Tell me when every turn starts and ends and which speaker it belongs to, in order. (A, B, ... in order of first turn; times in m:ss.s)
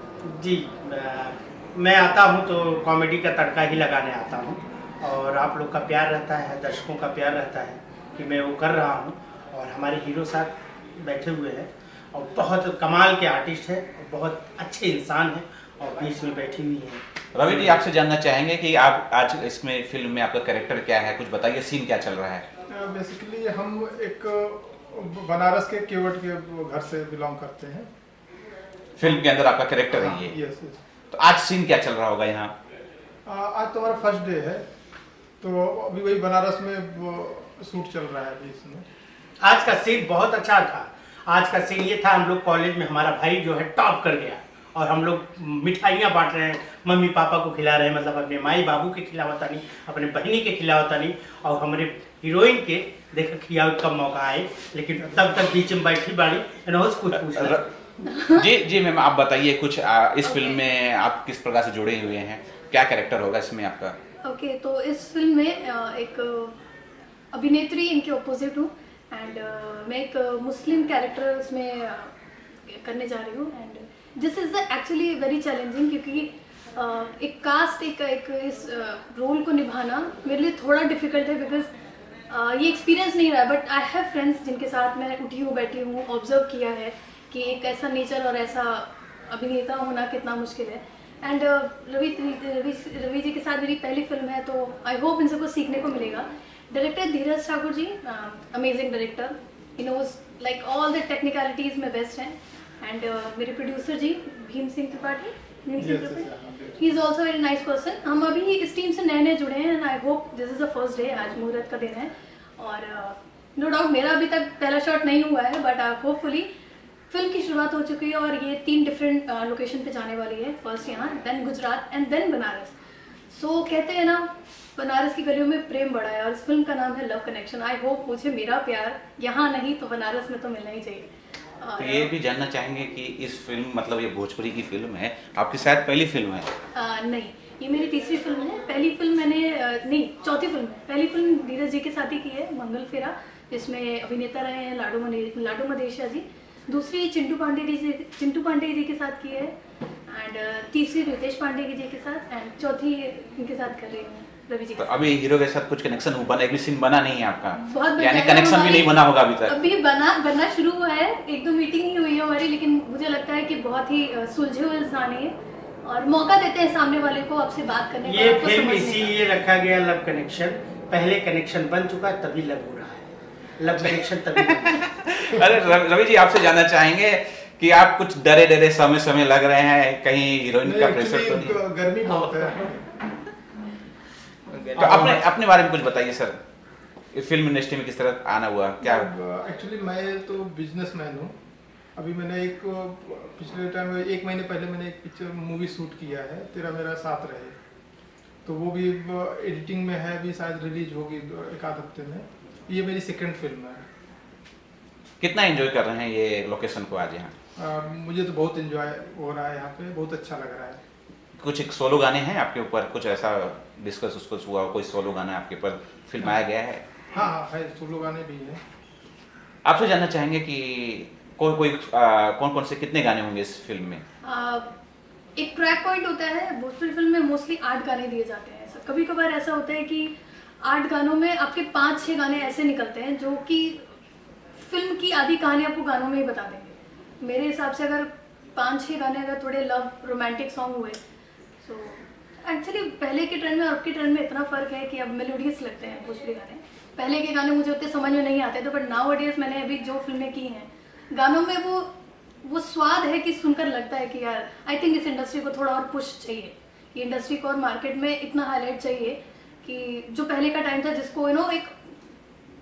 0:00.2-0:17.8 A
0:17.3-0:22.4 B
0:22.7-0:27.9 C
0:29.0-0:30.4 B
0:29.9-0:30.8 C
0:31.1-0:32.6 B
0:33.3-0:34.6 C
0:35.4-0:38.8 C
0:39.4-0:57.7 A
0:57.1-0:57.6 B
0:58.1-0:58.5 D
0:58.3-1:04.0 B
1:00.2-1:00.6 D
1:04.2-1:06.6 D
1:07.3-1:12.1 D
1:12.7-1:21.7 D
1:22.3-1:56.5 D
1:45.8-1:46.9 C
1:57.1-2:02.8 D
2:03.3-2:11.1 D
2:11.6-2:12.1 D
2:11.8-2:16.5 B
2:16.7-2:29.6 D
2:30.1-2:34.9 D
2:34.8-2:39.6 B
2:37.6-2:45.3 D
2:45.8-2:49.2 D
2:48.1-2:54.9 A
2:54.5-3:01.6 B
3:00.6-3:02.9 C
3:04.6-3:05.0 C
3:04.8-3:06.4 B
3:04.8-3:05.2 A
3:07.1-3:09.1 B
3:08.8-3:11.4 C
3:12.0-3:17.6 C
3:18.4-3:23.9 C
3:25.2-3:27.3 B
3:27.6-3:30.8 C
3:31.4-3:36.8 B
3:37.1-3:38.6 C
3:39.6-3:44.0 B
3:44.2-3:44.7 D
3:45.4-3:53.8 D
3:54.6-4:01.0 D
4:01.6-4:11.9 D
4:12.4-4:21.7 D